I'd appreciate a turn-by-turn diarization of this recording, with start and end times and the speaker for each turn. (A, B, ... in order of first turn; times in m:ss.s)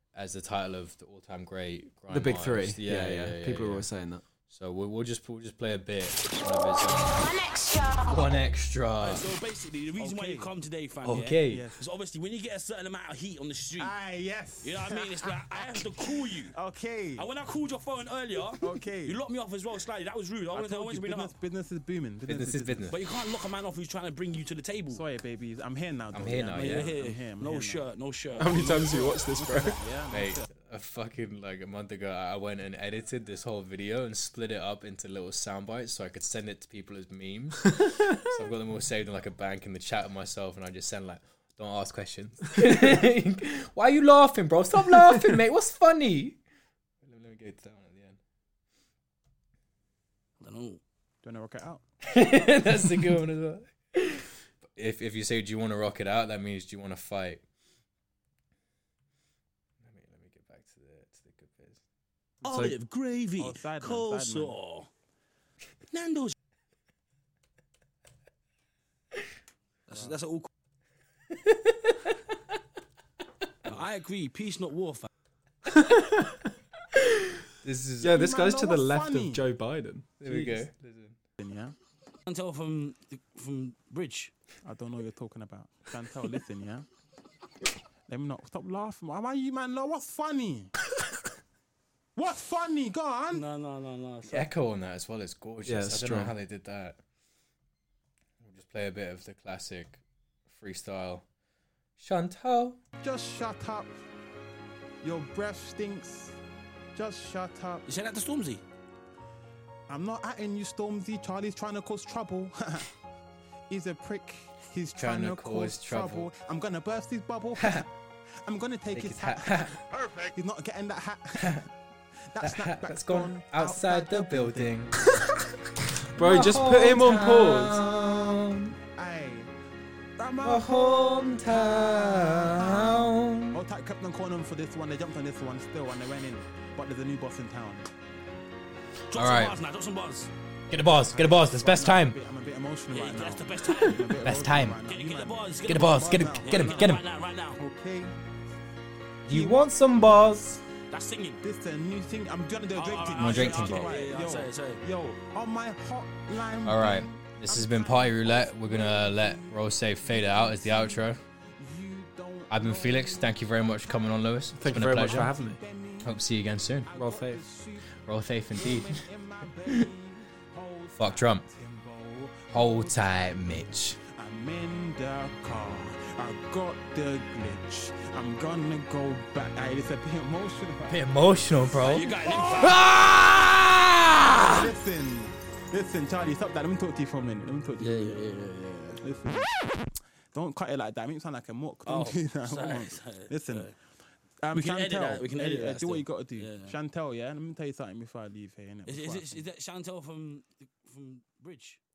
0:00.1-0:03.8 A
0:02.1-0:04.2 B
0:04.5-0:07.4 A
0:08.0-0:09.3 A
0:09.0-0:13.9 C
0:10.0-0:10.6 D
0:11.0-0:11.7 A
0:11.5-0:11.8 D
0:13.8-0:17.3 D
0:14.6-0:16.5 C
0:17.2-0:21.4 C
0:18.6-0:19.2 D
0:20.5-0:22.9 D
0:22.3-0:23.0 A
0:22.9-0:25.0 C
0:24.9-0:27.9 D
0:26.1-0:27.0 A
0:26.3-0:29.0 C
0:28.4-0:29.8 B
0:28.5-0:30.5 D
0:30.1-0:46.4 A
0:47.0-0:48.2 A
0:50.4-0:50.8 C
0:51.2-0:51.8 D
0:52.1-0:57.4 A
0:59.8-1:01.8 A
1:02.4-1:04.9 C
1:02.5-1:04.6 D
1:05.9-1:06.3 C
1:09.9-1:10.5 C
1:11.5-1:11.9 A
1:13.6-1:15.1 C
1:15.8-1:16.1 B
1:17.6-1:18.2 A
1:18.0-1:20.6 B
1:18.1-1:19.4 D
1:20.2-1:21.2 A
1:21.4-1:21.8 D
1:22.3-1:24.3 C
1:24.6-1:26.9 D
1:28.1-1:30.7 D
1:32.2-1:33.4 D
1:33.3-1:34.5 C
1:34.3-1:37.0 A
1:35.7-1:36.3 B
1:38.4-1:41.2 A
1:42.0-1:42.8 A
1:43.0-1:43.9 D
1:45.0-1:46.4 D
1:46.9-1:47.8 D
1:47.9-1:48.6 C
1:49.9-1:52.9 D
1:53.7-1:57.9 D
1:55.0-1:56.3 A
1:57.6-1:57.8 A
1:58.4-2:01.7 D
1:58.9-1:59.8 A
2:01.4-2:01.7 A
2:02.2-2:04.7 D
2:02.4-2:05.0 A
2:06.1-2:07.8 B
2:06.2-2:08.8 A
2:08.0-2:08.3 D
2:08.9-2:09.5 D
2:10.2-2:17.9 D
2:10.4-2:13.6 A
2:19.1-2:20.3 C
2:19.1-2:19.6 A
2:20.7-2:22.2 A
2:21.1-2:28.2 D
2:22.9-2:24.3 C
2:23.8-2:24.8 A
2:24.9-2:27.6 C
2:25.7-2:27.0 A
2:29.3-2:29.6 D
2:29.3-2:30.6 A
2:30.9-2:31.4 C
2:31.4-2:41.0 D
2:32.8-2:34.8 C
2:33.2-2:34.0 A
2:36.6-2:41.2 A
2:41.6-2:43.3 D
2:42.5-2:45.3 A
2:44.6-2:45.6 B
2:44.9-2:46.1 D
2:46.0-2:46.9 A
2:46.8-2:48.0 D
2:46.9-2:47.4 B
2:48.0-2:49.1 A
2:48.6-2:53.4 D
2:51.0-2:51.5 A
2:52.5-2:54.0 A
2:54.2-3:01.1 D
3:00.9-3:04.7 A
3:01.8-3:02.8 C
3:01.9-3:02.8 D
3:04.5-3:08.3 D
3:07.8-3:09.1 C
3:09.0-3:09.5 D
3:10.3-3:13.7 D
3:11.8-3:13.8 C
3:14.4-3:19.5 D
3:14.5-3:16.8 C
3:18.9-3:21.8 C